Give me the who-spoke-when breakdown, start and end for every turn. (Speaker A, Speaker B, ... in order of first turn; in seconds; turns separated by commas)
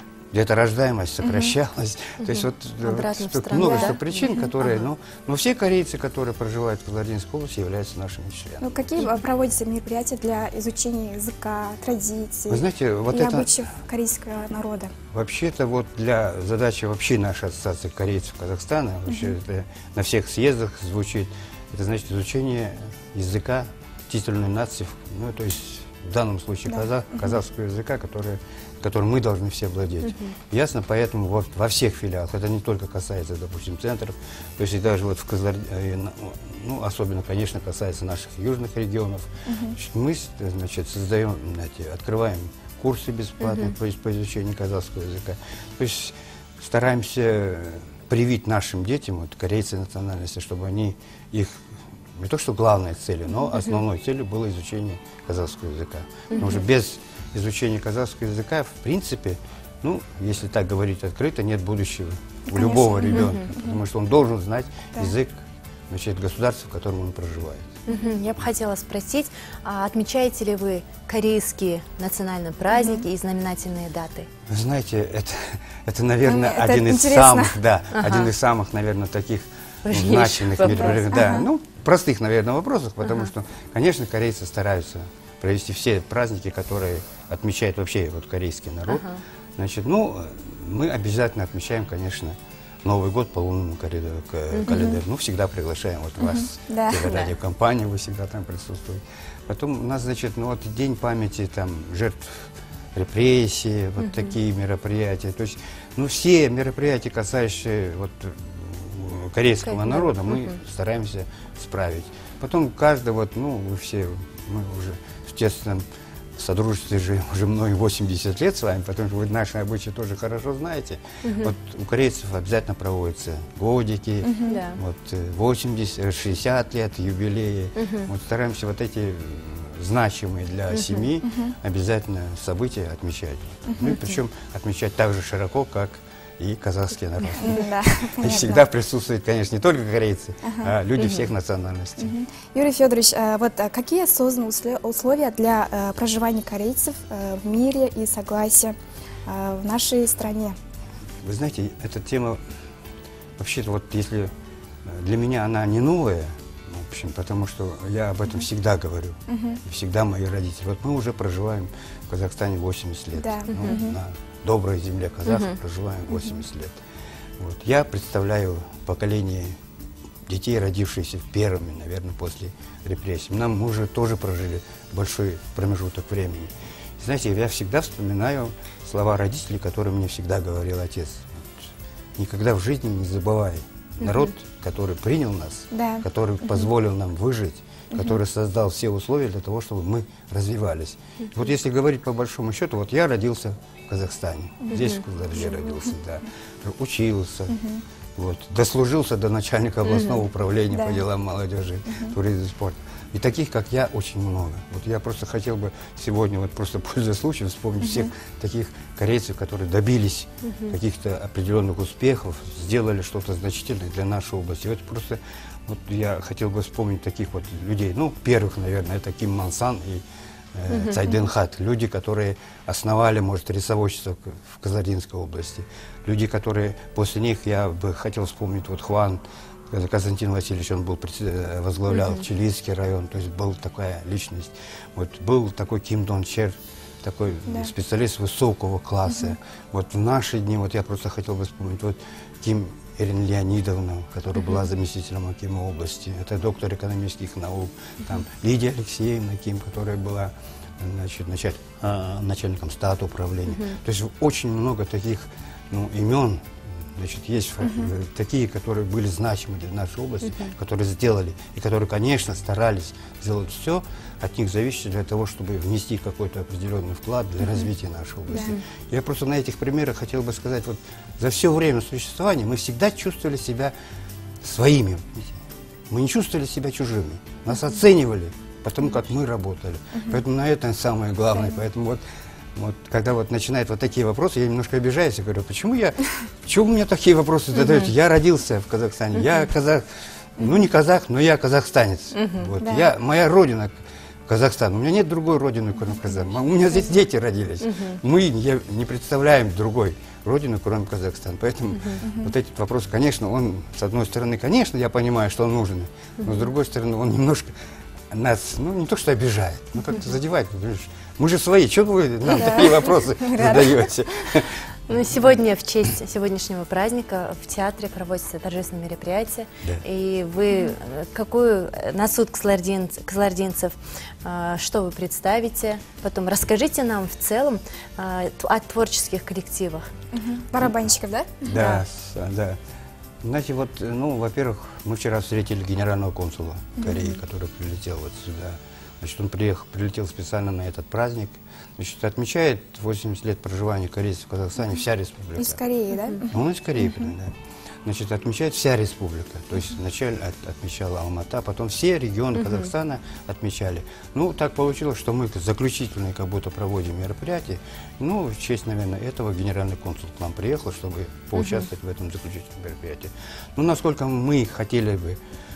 Speaker A: 0.3-8.8, Speaker B: 1.2-1.5, Speaker C: 2.2-4.8, Speaker B: 3.6-3.9, Speaker B: 8.6-14.9, Speaker A: 12.5-13.5, Speaker A: 15.1-67.8, Speaker B: 19.1-19.3, Speaker B: 26.7-27.3, Speaker C: 30.0-30.3, Speaker B: 39.5-39.8, Speaker C: 43.4-43.7, Speaker C: 56.3-56.6, Speaker B: 62.5-63.8, Speaker C: 63.1-63.4, Speaker C: 67.9-74.3, Speaker B: 72.7-73.0, Speaker A: 74.5-89.0, Speaker B: 76.2-77.6, Speaker C: 77.9-78.3, Speaker C: 79.8-81.0, Speaker B: 80.7-81.5, Speaker C: 83.0-83.3, Speaker C: 88.9-89.2, Speaker A: 89.6-115.8, Speaker C: 94.5-95.0, Speaker B: 96.2-97.1, Speaker C: 97.0-97.3, Speaker C: 104.0-104.3, Speaker C: 109.6-110.6, Speaker A: 116.4-142.2, Speaker C: 121.2-121.5, Speaker B: 124.2-124.6, Speaker C: 124.5-124.8, Speaker C: 127.8-128.1, Speaker C: 130.7-131.1, Speaker B: 131.3-131.5, Speaker B: 133.7-134.0, Speaker B: 137.4-138.6, Speaker B: 140.5-140.7, Speaker C: 141.0-141.3, Speaker B: 142.0-150.6, Speaker A: 151.2-152.4, Speaker A: 153.4-154.3, Speaker A: 154.8-166.8, Speaker B: 159.3-159.6, Speaker B: 163.2-164.0, Speaker C: 163.5-163.8, Speaker C: 165.3-165.6, Speaker A: 167.4-169.6, Speaker A: 170.3-197.6, Speaker C: 184.0-184.3, Speaker B: 185.7-186.7, Speaker B: 194.6-195.9, Speaker C: 194.7-195.0, Speaker B: 197.5-197.8, Speaker A: 198.2-220.0, Speaker C: 199.9-200.2, Speaker B: 200.7-201.0, Speaker B: 207.8-208.1, Speaker C: 210.4-210.8, Speaker A: 220.6-273.8, Speaker C: 220.7-221.0, Speaker C: 231.9-232.2, Speaker B: 239.1-239.3, Speaker C: 253.5-253.8, Speaker B: 257.6-257.9, Speaker C: 260.2-260.5, Speaker B: 268.3-268.6, Speaker A: 274.4-282.0, Speaker A: 282.6-289.9, Speaker C: 287.6-287.9, Speaker A: 290.4-307.5, Speaker C: 292.1-292.5, Speaker B: 292.6-292.9, Speaker C: 297.6-298.0, Speaker B: 302.0-302.3, Speaker C: 306.2-306.4, Speaker A: 308.1-315.3, Speaker B: 312.4-314.3, Speaker C: 314.9-329.9, Speaker B: 330.1-331.6, Speaker A: 331.4-332.6, Speaker C: 331.5-331.8, Speaker A: 333.2-345.6, Speaker B: 345.4-347.1, Speaker A: 346.3-365.2, Speaker C: 361.4-361.7